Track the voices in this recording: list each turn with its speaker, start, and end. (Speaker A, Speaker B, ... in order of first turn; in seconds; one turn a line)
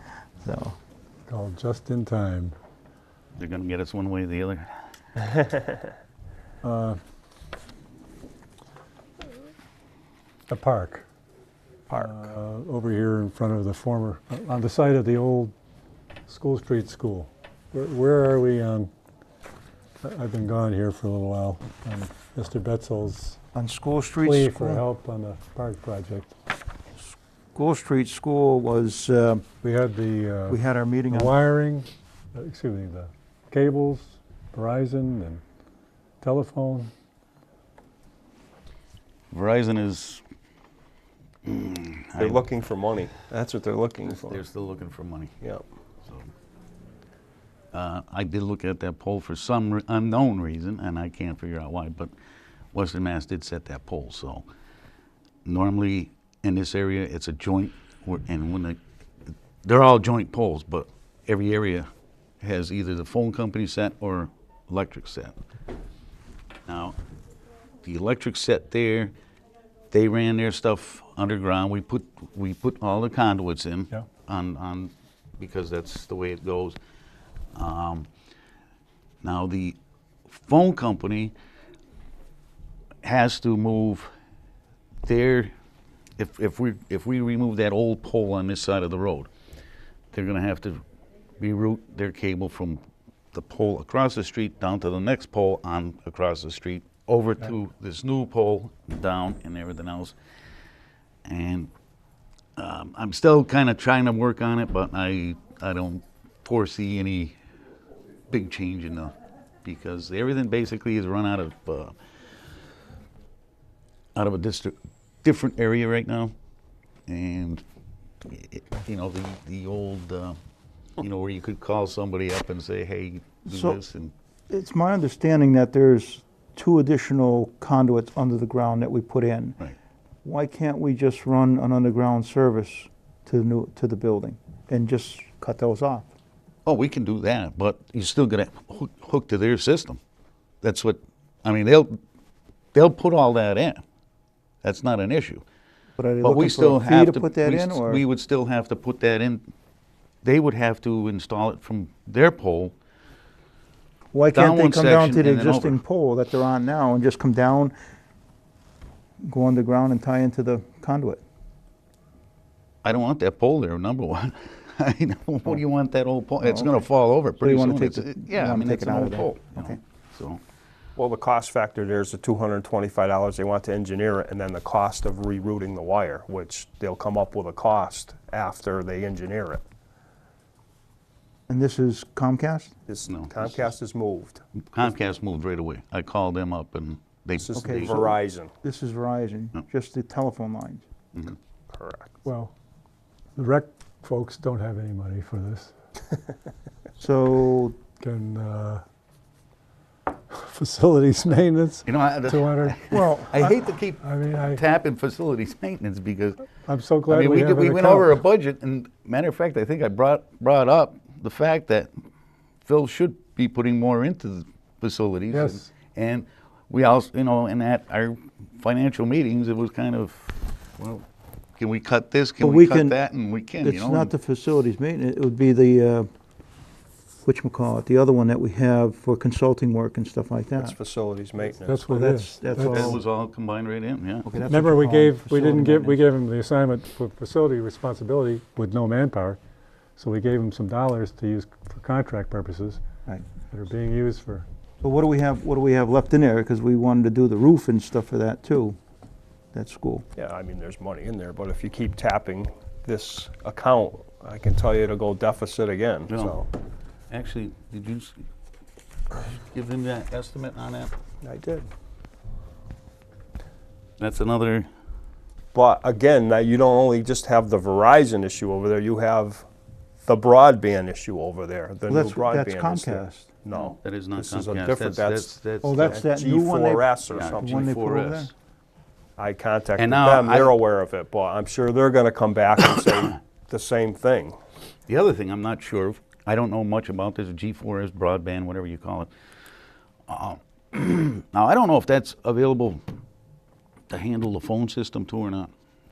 Speaker A: 0.4-0.8
Speaker B: 1.3-2.5
Speaker C: 3.4-4.7
Speaker B: 6.6-7.0
Speaker B: 10.5-11.1
Speaker B: 11.9-15.5
Speaker B: 16.3-18.9
Speaker B: 20.0-23.4
Speaker A: 23.5-24.9
Speaker B: 24.2-26.3
Speaker A: 27.5-29.5
Speaker B: 29.6-30.6
Speaker A: 30.5-31.3
Speaker B: 31.1-35.4
Speaker B: 36.2-36.9
Speaker C: 39.3-40.2
Speaker C: 41.5-42.5
Speaker D: 42.2-44.4
Speaker C: 44.1-45.4
Speaker C: 46.0-46.3
Speaker C: 47.7-52.1
Speaker C: 52.7-54.5
Speaker C: 55.5-58.8
Speaker C: 59.6-61.9
Speaker C: 62.4-65.4
Speaker C: 66.7-67.0
Speaker C: 67.8-69.1
Speaker C: 69.9-76.8
Speaker C: 77.5-78.1
Speaker C: 79.2-81.3
Speaker C: 83.0-84.1
Speaker C: 85.0-85.5
Speaker C: 86.2-89.3
Speaker C: 90.1-90.8
Speaker C: 91.4-92.8
Speaker C: 93.3-100.2
Speaker C: 101.3-101.7
Speaker C: 102.6-107.3
Speaker C: 108.3-111.9
Speaker C: 114.2-116.3
Speaker C: 117.1-117.6
Speaker C: 118.2-120.4
Speaker C: 121.0-124.1
Speaker A: 123.5-123.8
Speaker A: 124.5-129.6
Speaker A: 130.2-136.1
Speaker C: 136.7-140.0
Speaker C: 140.6-142.0
Speaker C: 142.7-143.8
Speaker C: 144.6-145.4
Speaker A: 146.0-148.0
Speaker C: 146.2-149.5
Speaker C: 150.2-152.7
Speaker A: 154.1-157.7
Speaker C: 154.3-155.8
Speaker A: 159.2-161.2
Speaker C: 162.8-170.4
Speaker A: 166.4-166.9
Speaker A: 167.4-169.8
Speaker D: 171.0-179.6
Speaker A: 181.5-182.7
Speaker D: 182.9-184.4
Speaker C: 183.1-183.6
Speaker C: 184.7-188.0
Speaker D: 187.3-188.5
Speaker A: 187.6-190.8
Speaker D: 191.7-192.2
Speaker B: 192.2-192.5
Speaker B: 193.4-195.7
Speaker A: 197.0-197.8
Speaker B: 198.0-198.8
Speaker B: 200.3-203.4
Speaker C: 201.9-206.4
Speaker A: 202.9-203.5
Speaker B: 204.0-204.6
Speaker B: 206.6-208.2
Speaker C: 207.1-211.9
Speaker C: 212.7-221.1
Speaker B: 215.3-215.7
Speaker C: 221.6-224.1
Speaker A: 222.4-223.0
Speaker A: 223.6-226.1
Speaker A: 227.2-230.8
Speaker D: 230.6-231.9
Speaker B: 231.7-233.0
Speaker A: 231.9-233.0
Speaker C: 232.6-234.3
Speaker A: 234.3-236.0
Speaker B: 234.5-239.4
Speaker B: 240.0-242.8
Speaker B: 243.5-244.5
Speaker A: 244.8-248.8
Speaker A: 249.5-250.1
Speaker D: 250.2-256.5
Speaker C: 256.1-256.4
Speaker C: 257.1-258.2
Speaker C: 259.1-260.9
Speaker D: 261.2-261.7
Speaker C: 264.0-264.7
Speaker D: 265.5-269.5
Speaker D: 270.1-277.7
Speaker A: 271.9-273.3
Speaker C: 273.5-276.0
Speaker A: 275.6-278.3
Speaker C: 277.1-278.3
Speaker D: 279.2-284.4
Speaker C: 279.8-280.6
Speaker C: 284.9-289.1
Speaker C: 290.1-292.8
Speaker C: 293.9-295.5